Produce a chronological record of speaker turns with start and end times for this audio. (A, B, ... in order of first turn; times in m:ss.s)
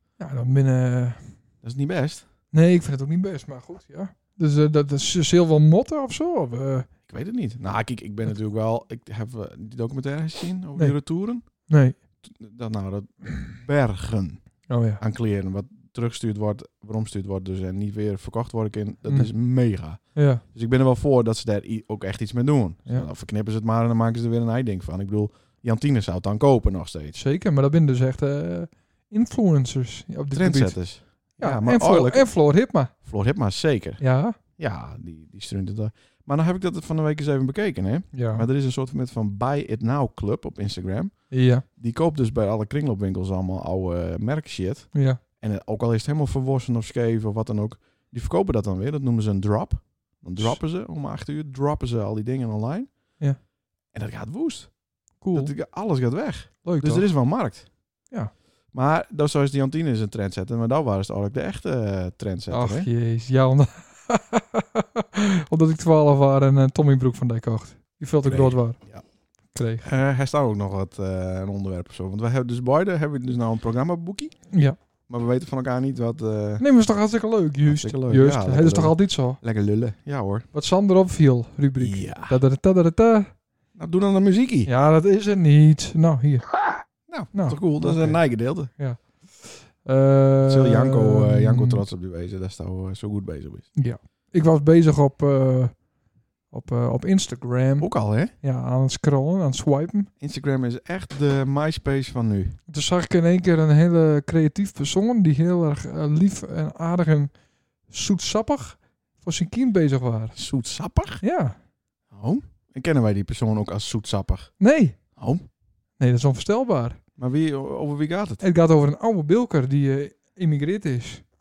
0:00.2-0:01.4 A
0:01.6-0:02.2 B
0:02.5-0:06.9 A
0:07.1-0:27.2 B
0:10.8-0:12.0 A
0:14.7-0:15.0 A
0:19.1-0:19.3 A
0:20.2-0:20.4 A
0:27.1-0:32.9 A
0:30.3-0:53.2 B
0:34.0-0:34.4 A
0:38.1-0:38.5 A
0:41.3-0:41.6 A
0:44.9-0:45.2 A
0:53.9-0:57.7 B
0:55.2-0:55.6 A
0:56.6-0:57.1 A
0:58.7-1:02.9 B
1:02.5-1:08.8 A
1:08.3-1:09.0 B
1:09.5-1:09.8 A
1:09.8-1:14.5 B
1:14.5-1:14.8 A
1:15.1-1:16.7 B
1:16.6-1:19.4 A
1:17.7-1:20.5 B
1:20.5-1:23.4 A
1:21.8-1:22.4 B
1:23.8-1:24.7 B
1:24.7-1:26.6 A
1:27.1-1:28.7 B
1:27.3-1:31.8 A
1:30.5-1:33.7 B
1:33.8-1:35.9 A
1:36.5-1:40.1 A
1:37.8-1:38.3 B
1:40.2-1:42.6 B
1:42.7-1:47.4 A
1:47.9-1:50.4 A
1:50.4-1:51.2 B
1:51.2-1:51.6 A
1:52.1-1:54.6 B
1:54.6-1:55.0 A
1:55.1-1:55.4 B
1:56.0-1:57.0 A
1:57.2-1:58.4 B
1:58.4-2:01.2 A